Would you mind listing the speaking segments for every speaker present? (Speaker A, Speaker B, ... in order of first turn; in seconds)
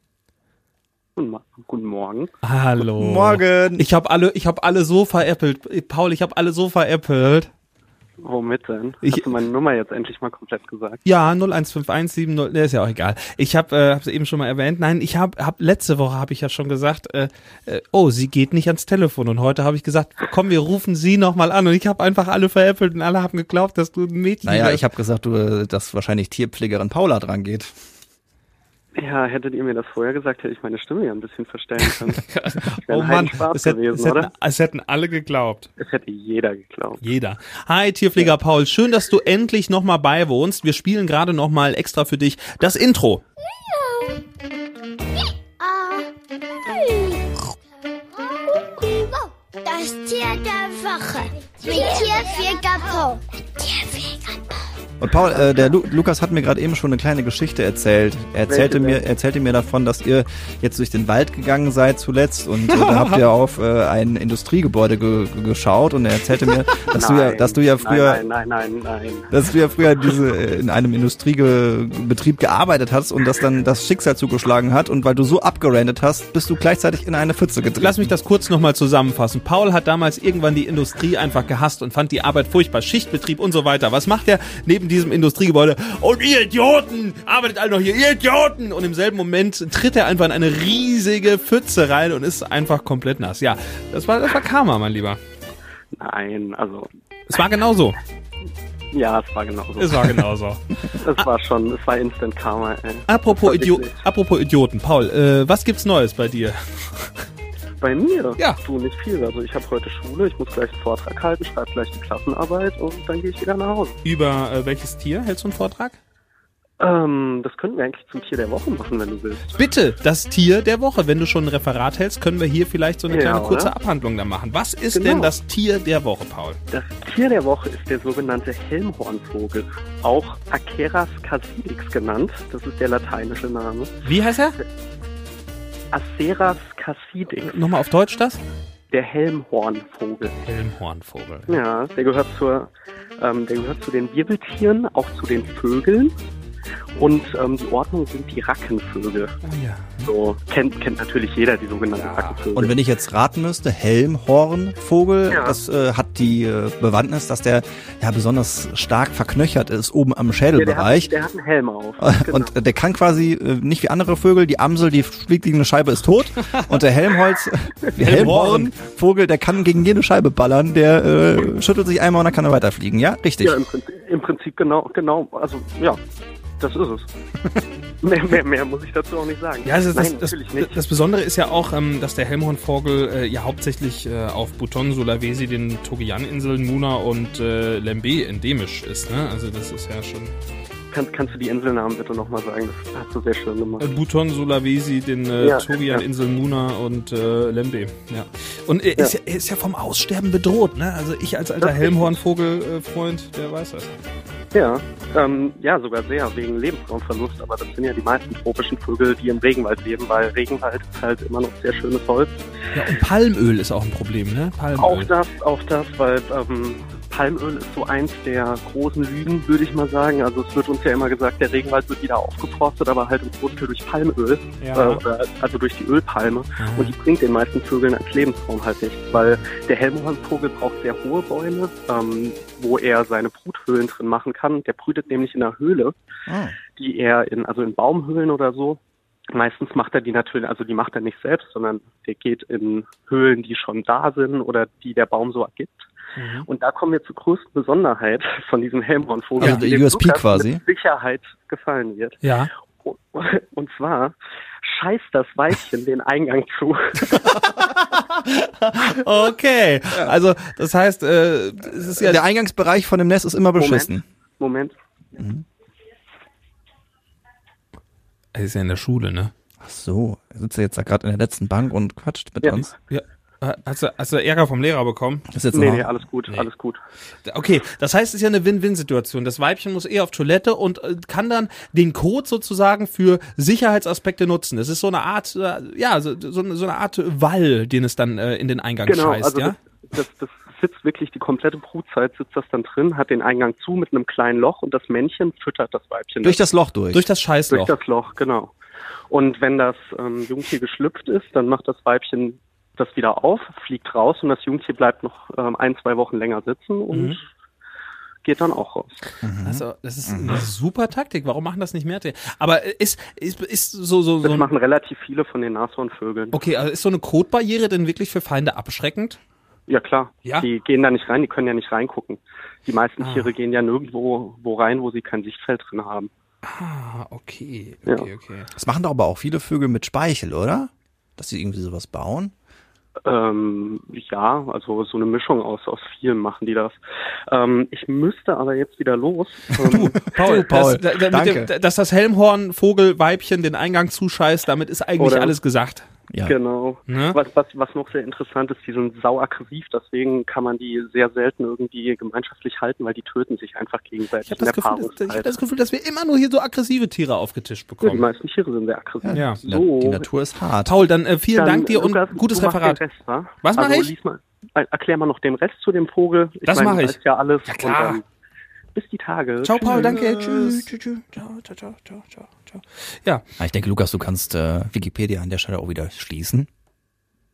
Speaker A: 1.2-2.3, 8.2-11.0, 29.0-34.3, 35.8-37.0, 58.5-59.0, 66.8-69.3, 96.0-96.9, 98.9-100.2, 100.9-104.0, 107.8-114.0, 116.8-119.6, 123.1-123.7, 124.9-125.3, 126.7-133.9, 135.9-137.6, 138.9-140.4, 141.5-146.2, 147.0-149.3, 150.0-152.7, 155.3-155.6, 160.6-162.5, 173.4-176.0, 176.6-177.1, 178.0-180.8, 190.9-193.9, 195.4-196.0, 201.6-202.2, 204.5-212.4, 214.8-235.9, 236.7-238.8, 239.3-245.8, 246.5-252.2, 252.8-257.2, 263.6-264.8, 275.5-276.8, 288.9-296.4, 297.5-298.5, 299.1-307.2, 308.2-309.0, 314.2-316.4, 319.7-326.1, 333.1-336.8, 337.3-340.2, 345.0-345.4, 346.3-355.4, 357.8-360.1, 361.4-368.0, 368.8-369.9
Speaker B: 2.4-7.5, 9.0-9.3, 11.1-24.8, 31.9-35.7, 37.0-43.2, 62.7-63.3, 77.8-95.2, 97.3-98.0, 99.8-101.3, 103.1-107.3, 114.0-116.0, 119.5-126.6, 134.0-134.6, 137.3-138.4, 140.4-141.6, 149.4-150.1, 151.9-152.4, 168.0-168.7, 179.7-190.3, 193.8-203.9, 212.7-215.1, 224.6-225.0, 226.6-226.9, 246.2-246.5, 252.2-252.5, 257.1-262.2, 268.3-269.3, 272.9-275.3, 277.2-289.6, 296.9-297.7, 306.9-307.2, 309.4-314.5, 316.3-319.2, 323.0-323.4, 326.4-328.5, 339.6-345.9, 346.9-347.2, 354.2-358.1, 359.1-359.4, 360.6-362.8, 363.4-363.9, 366.4-368.0, 369.4-373.2
Speaker C: 3.0-3.9, 24.4-27.7, 55.0-68.2, 69.3-78.1, 152.6-161.1, 162.0-173.6, 236.3-236.6, 249.4-250.6, 262.0-264.0, 265.2-265.4, 269.6-272.7, 275.3-275.9, 296.2-297.1, 309.2-310.4, 328.6-332.3, 339.6-341.5, 359.0-360.8, 369.6-370.7, 373.4-376.5
Speaker D: 43.6-44.2, 45.6-46.1, 46.6-47.5, 48.2-54.8